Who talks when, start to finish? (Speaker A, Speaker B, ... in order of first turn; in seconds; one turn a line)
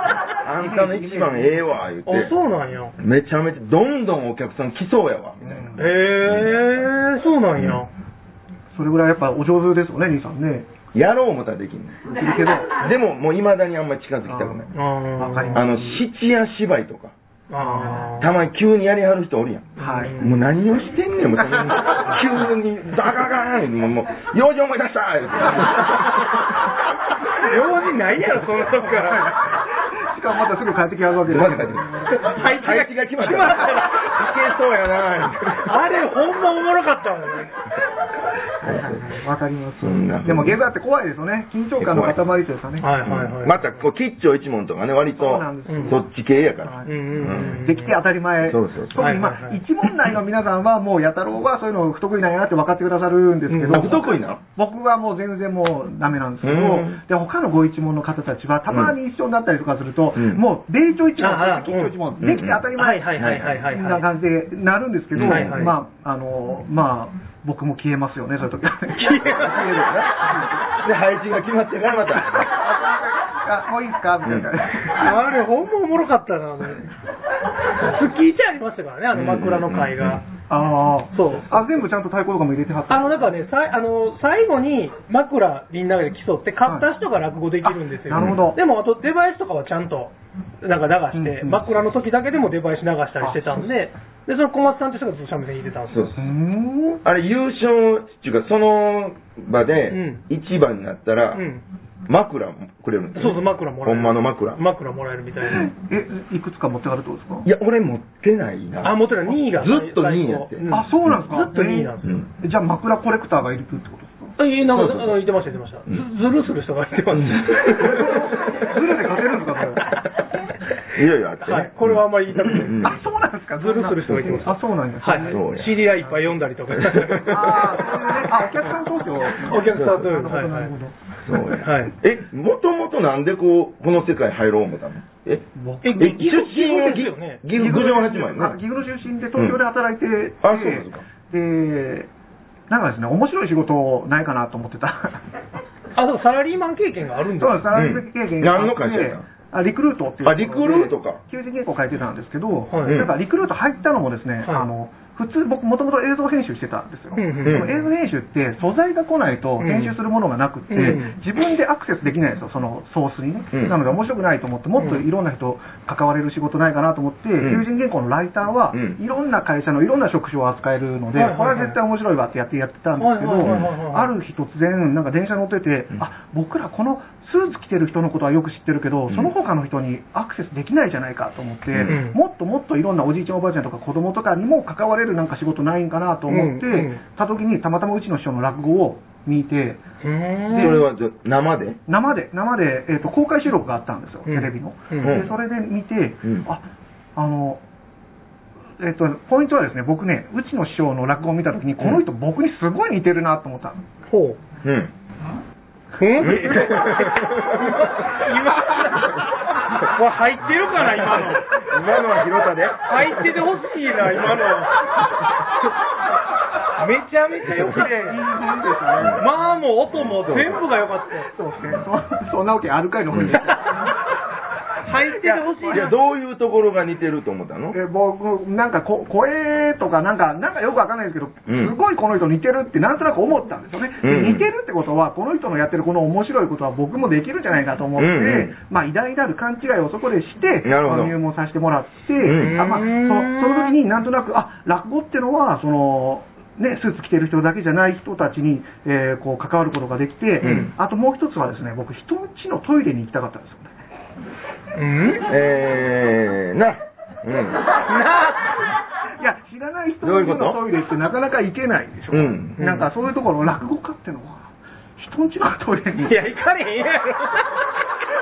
Speaker A: 0.3-2.4
Speaker B: 0.6-1.6
Speaker C: 2.1-2.9
Speaker A: 3.0-6.9
Speaker B: 5.4-6.0
Speaker C: 5.8-7.9
Speaker A: 7.6-7.8
Speaker B: 8.7-10.7
Speaker A: 10.9-12.0
Speaker B: 12.1-12.7
Speaker A: 12.7-14.7
Speaker B: 14.3-14.7
Speaker C: 14.7-15.7
Speaker B: 15.2-16.0
Speaker A: 15.5-17.1
Speaker C: 17.5-18.3
Speaker B: 17.6-18.1
Speaker A: 18.2-26.5
Speaker B: 19.8-20.2
Speaker C: 19.8-20.4
Speaker B: 21.5-22.0
Speaker C: 27.4-29.4
Speaker B: 28.8-32.5
Speaker A: 31.3-35.9
Speaker C: 32.2-34.2
Speaker C: 35.6-37.6
Speaker B: 38.6-42.9
Speaker A: 38.6-39.0
Speaker A: 39.8-40.6
Speaker A: 41.8-42.2
Speaker C: 42.8-43.6
Speaker A: 43.0-47.7
Speaker B: 45.2-46.0
Speaker C: 45.7-46.0
Speaker B: 46.6-70.7
Speaker C: 46.9-48.0
Speaker A: 48.4-49.1
Speaker C: 49.0-49.6
Speaker C: 53.5-54.0
Speaker A: 53.7-54.4
Speaker A: 56.4-57.0
Speaker A: 58.7-59.0
Speaker A: 60.2-60.4
Speaker C: 61.2-61.9
Speaker A: 62.2-63.7
Speaker C: 62.8-64.1
Speaker A: 65.1-65.7
Speaker C: 65.2-65.7
Speaker C: 69.0-69.9
Speaker A: 69.2-72.5
Speaker B: 72.2-75.2
Speaker A: 74.2-74.5
Speaker C: 74.9-76.9
Speaker C: 77.8-80.3
Speaker A: 79.1-80.2
Speaker B: 80.5-83.3
Speaker C: 81.1-81.5
Speaker C: 82.9-96.2
Speaker B: 87.6-88.6
Speaker A: 88.1-88.4
Speaker B: 91.1-91.8
Speaker B: 93.2-93.6
Speaker A: 95.9-96.2
Speaker B: 96.2-97.0
Speaker A: 97.0-101.5
Speaker C: 99.9-100.2
Speaker C: 101.3-101.6
Speaker A: 102.1-104.6
Speaker C: 103.2-105.7
Speaker B: 105.5-107.5
Speaker A: 107.5-111.2
Speaker C: 108.8-112.2
Speaker B: 110.7-114.4
Speaker C: 114.4-118.2
Speaker A: 114.7-115.2
Speaker A: 117.1-117.8
Speaker B: 117.7-119.9
Speaker A: 120.9-123.0
Speaker C: 121.4-122.9
Speaker B: 122.8-125.5
Speaker C: 123.6-127.8
Speaker A: 124.1-124.5
Speaker A: 125.3-125.8
Speaker A: 126.7-128.1
Speaker B: 127.2-130.9
Speaker C: 129.3-130.7
Speaker A: 129.7-130.2
Speaker A: 131.2-135.4
Speaker C: 131.5-131.9
Speaker B: 135.6-136.3
Speaker C: 135.8-137.4
Speaker A: 136.0-138.6
Speaker B: 137.5-142.1
Speaker A: 140.4-141.0
Speaker B: 142.7-145.2
Speaker C: 146.0-147.7
Speaker B: 147.4-189.8
Speaker A: 147.7-149.2
Speaker A: 150.2-151.2
Speaker C: 152.7-153.1
Speaker A: 152.9-153.1
Speaker C: 157.2-157.9
Speaker A: 157.4-157.7
Speaker C: 159.6-160.0
Speaker C: 160.7-161.2
Speaker A: 167.4-167.7
Speaker A: 168.7-169.0
Speaker C: 171.2-171.8
Speaker C: 173.0-174.1
Speaker A: 173.4-173.7
Speaker A: 181.7-182.0
Speaker C: 181.9-182.2
Speaker C: 186.3-187.0
Speaker C: 190.0-190.8
Speaker B: 190.5-190.8
Speaker A: 190.5-191.8
Speaker B: 191.9-196.7
Speaker C: 194.3-195.2
Speaker A: 195.0-195.3
Speaker B: 197.2-197.6
Speaker B: 198.8-203.8
Speaker C: 204.1-204.4
Speaker A: 204.6-204.9
Speaker C: 206.0-211.6
Speaker A: 206.2-208.3
Speaker A: 210.8-213.5
Speaker C: 212.8-214.9
Speaker C: 216.7-218.2
Speaker A: 217.4-218.0
Speaker B: 217.8-219.3
Speaker A: 219.0-219.2
Speaker C: 219.2-221.3
Speaker A: 219.9-220.6
Speaker B: 221.3-224.0
Speaker A: 223.1-223.4
Speaker C: 224.8-225.9
Speaker B: 224.9-225.8
Speaker A: 225.7-227.8
Speaker B: 227.7-253.8
Speaker A: 231.5-231.7
Speaker A: 234.0-234.4
Speaker A: 238.0-238.6
Speaker A: 240.7-241.2
Speaker A: 242.2-242.7
Speaker C: 242.3-243.8
Speaker C: 250.4-250.7
Speaker A: 250.4-250.7
Speaker C: 254.8-255.3
Speaker A: 255.3-257.6
Speaker C: 257.8-258.6
Speaker B: 259.2-266.2
Speaker A: 260.0-260.6
Speaker A: 262.1-262.6
Speaker C: 262.6-262.9
Speaker C: 266.0-267.7